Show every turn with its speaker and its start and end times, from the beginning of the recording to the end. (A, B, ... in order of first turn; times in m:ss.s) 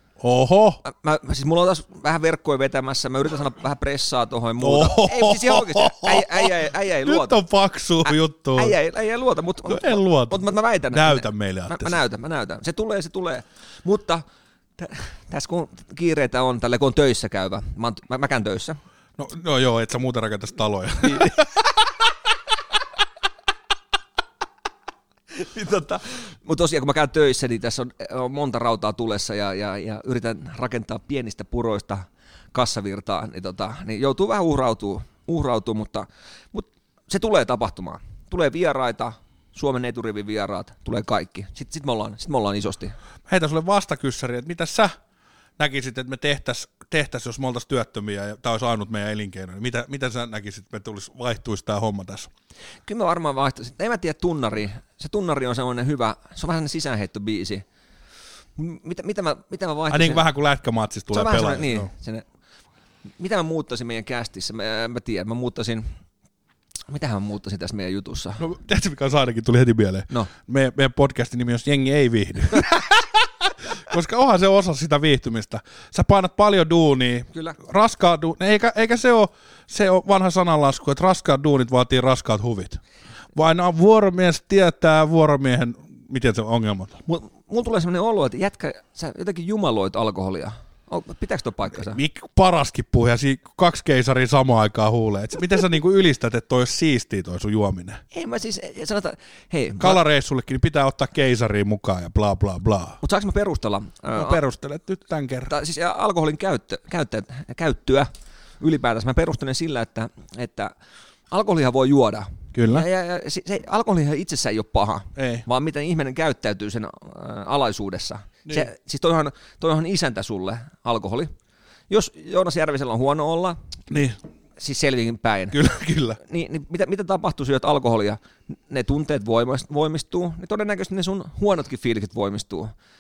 0:00.2-0:00.8 A
0:00.8-0:07.4 B
0:04.6-0:08.8 A
0:08.0-0:14.2 B
0:09.7-0:12.0 A
0:14.8-0:18.8 B
0:19.2-0:21.4 A
0:21.0-0:21.4 B
0:25.3-0:43.0 B
0:43.3-0:45.0 A
0:45.6-0:52.3 A
0:52.9-0:57.6 B
0:58.6-1:00.3 B
0:59.9-1:01.9 A
1:01.1-1:02.2 B
1:03.2-1:06.0 B
1:06.9-1:08.4 B
1:08.4-1:22.8 A
1:17.3-1:17.6 B
1:23.3-1:27.0 A
1:27.1-1:32.0 B
1:31.7-1:38.0 A
1:38.1-1:40.0 B
1:39.8-1:43.0 A
1:43.0-1:44.4 B
1:44.2-1:45.5 A
1:45.5-1:50.7 B
1:51.3-2:01.3 B
1:52.5-1:52.9 A
1:55.2-1:55.4 A
2:01.9-2:03.6 B
2:03.9-2:04.2 A
2:04.6-2:05.6 B
2:05.5-2:06.2 A
2:06.2-2:12.7 B